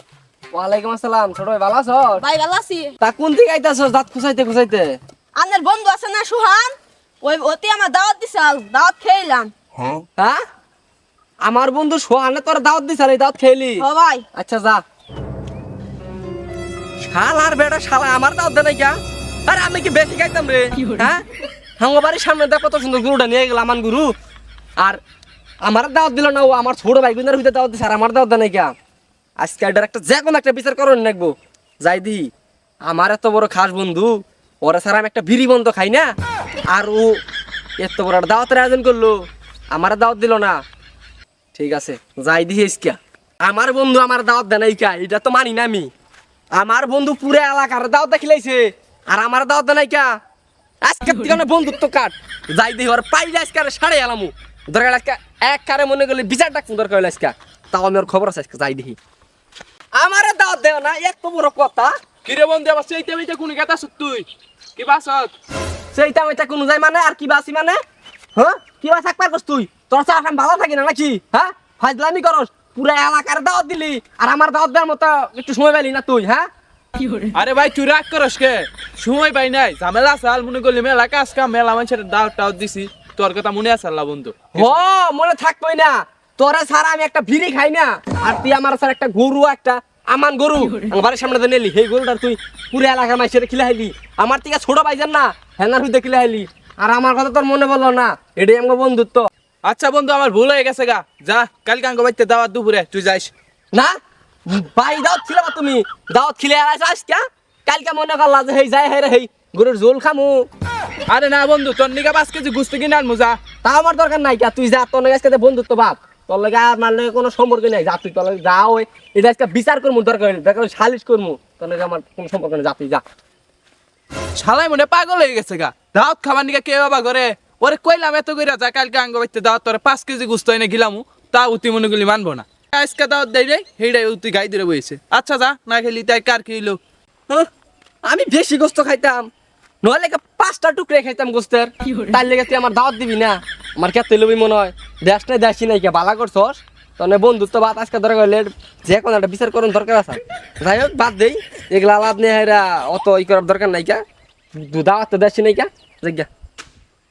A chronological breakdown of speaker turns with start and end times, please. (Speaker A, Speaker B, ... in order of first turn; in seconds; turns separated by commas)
Speaker A: 0.5-2.2, Speaker B: 2.2-2.9, Speaker A: 3.0-5.0, Speaker B: 5.4-9.5, Speaker A: 11.4-14.8, Speaker B: 13.8-14.3, Speaker A: 17.1-19.0, Speaker A: 19.5-21.2, Speaker A: 21.8-24.1, Speaker A: 25.6-28.7, Speaker A: 29.4-32.3, Speaker A: 32.9-36.1, Speaker A: 36.7-37.2, Speaker A: 37.8-39.2, Speaker A: 39.7-40.6, Speaker A: 41.5-45.9, Speaker A: 46.6-50.1, Speaker A: 50.8-59.0, Speaker A: 60.0-61.9, Speaker C: 62.2-65.3, Speaker A: 65.9-67.8, Speaker A: 68.4-76.5, Speaker C: 77.3-84.8, Speaker A: 84.5-99.3, Speaker C: 99.7-103.3, Speaker A: 104.5-110.5, Speaker C: 111.1-113.4, Speaker A: 113.6-123.0, Speaker C: 124.4-136.8, Speaker A: 138.1-139.3, Speaker A: 139.8-154.0, Speaker A: 154.6-156.3